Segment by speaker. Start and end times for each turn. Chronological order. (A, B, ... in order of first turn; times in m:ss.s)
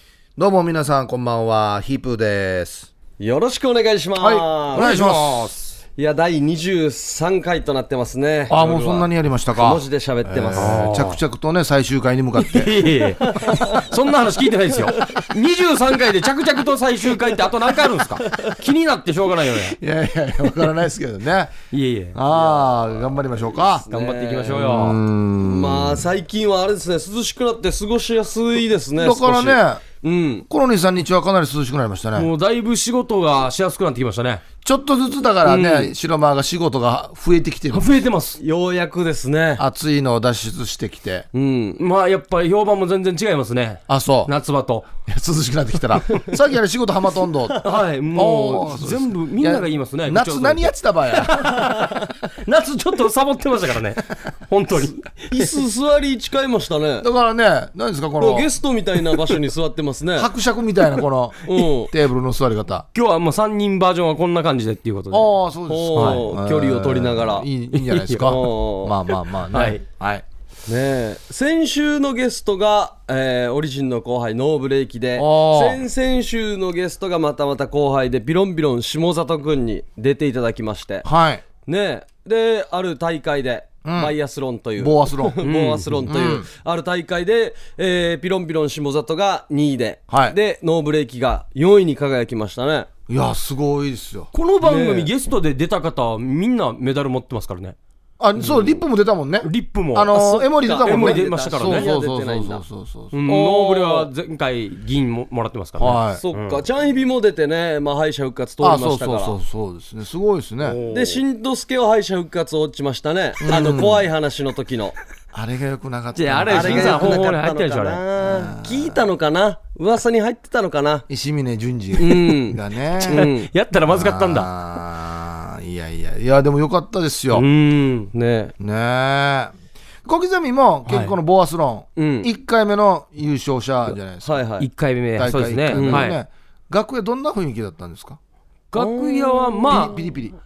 0:00.4-0:02.9 A
0:03.2-0:04.8 B
0:04.2-0:05.5 A
0:04.8-0:05.8 C
0:06.0-0:10.8 B
0:08.5-0:12.9 A
0:10.6-0:11.2 C
0:12.4-0:19.8 C
0:13.2-0:13.6 B
0:19.8-0:21.6 A
0:21.7-0:22.2 C
0:22.1-0:23.9 A
0:22.3-0:24.7 B
0:23.9-0:25.0 C
0:24.5-0:26.0 A
0:25.4-0:30.4 B
0:29.0-0:29.8 A
0:30.5-0:32.3 A
0:32.2-0:34.4 C
0:34.6-0:38.0 A
0:35.4-0:35.9 B
0:37.7-0:38.4 C
0:38.4-0:39.6 B
0:39.6-0:41.3 A
0:41.3-0:41.8 B
0:41.8-0:44.9 C
0:43.9-0:44.3 A
0:45.0-0:47.6 A
0:47.6-0:55.3 C
0:48.1-0:51.6 A
0:55.3-0:57.0 B
0:57.0-0:58.5 A
0:58.2-1:00.3 B
1:00.2-1:02.9 A
1:01.4-1:01.9 B
1:02.9-1:05.3 C
1:05.1-1:10.2 A
1:05.7-1:07.5 B
1:06.0-1:06.2 C
1:07.7-1:08.4 C
1:08.3-1:09.0 B
1:09.5-1:09.8 C
1:10.7-1:21.1 B
1:15.2-1:15.8 A
1:21.0-1:21.4 A
1:21.7-1:32.9 B
1:23.8-1:24.1 A
1:24.8-1:25.4 A
1:25.4-1:26.0 C
1:26.1-1:26.5 A
1:30.1-1:30.4 A
1:33.1-1:34.3 A
1:34.3-1:37.8 C
1:34.6-1:35.1 B
1:38.2-1:43.2 A
1:38.4-1:38.8 B
1:39.4-1:41.9 C
1:40.1-1:42.6 B
1:43.1-1:46.6 C
1:43.3-1:44.1 B
1:45.8-1:46.2 A
1:46.2-1:49.4 B
1:48.6-1:50.8 A
1:50.6-1:51.2 C
1:50.9-1:55.0 B
1:53.4-1:54.0 A
1:55.3-1:57.1 A
1:56.1-1:58.0 C
1:56.5-2:01.0 B
1:58.2-1:59.0 A
2:01.1-2:03.2 A
2:02.0-2:03.5 B
2:03.2-2:04.5 C
2:03.9-2:07.5 A
2:07.3-2:08.1 C
2:08.1-2:08.5 B
2:08.6-2:14.4 A
2:10.9-2:11.2 C
2:12.0-2:12.3 B
2:14.2-2:14.7 B
2:14.6-2:16.2 C
2:15.2-2:18.2 A
2:15.7-2:16.1 B
2:18.7-2:19.9 C
2:18.8-2:19.9 B
2:19.7-2:20.3 A